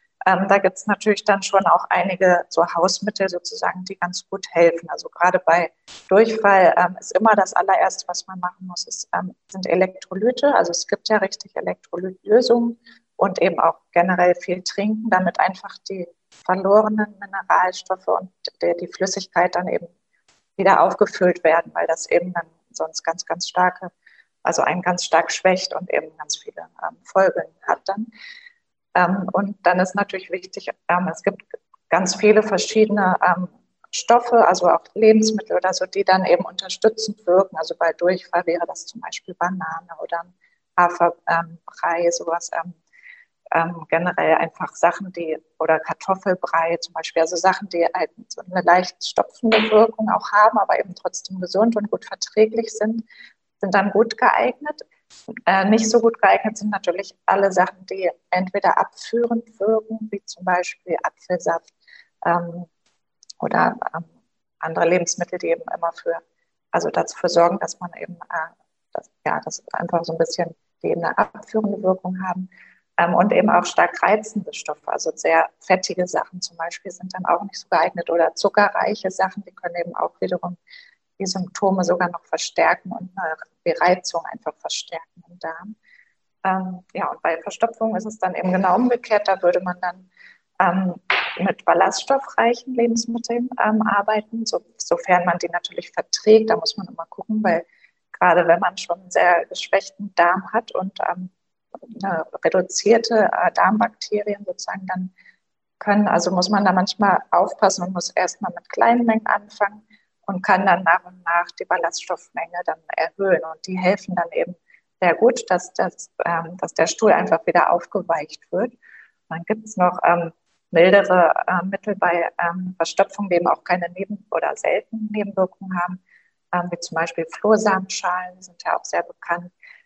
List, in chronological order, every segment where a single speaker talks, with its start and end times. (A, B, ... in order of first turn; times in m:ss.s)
0:00.2-0:19.9 A
0:20.6-0:23.9 A
0:24.4-0:28.1 A
0:28.9-0:42.8 A
0:43.5-0:53.0 A
0:53.6-0:54.8 A
0:55.5-1:01.7 A
1:02.2-1:02.7 A
1:03.4-1:04.1 A
1:04.6-1:06.2 A
1:06.7-1:20.6 A
1:21.2-1:25.7 A
1:26.4-1:45.1 A
1:45.8-1:58.7 A
1:59.3-2:06.0 A
2:06.5-2:09.5 A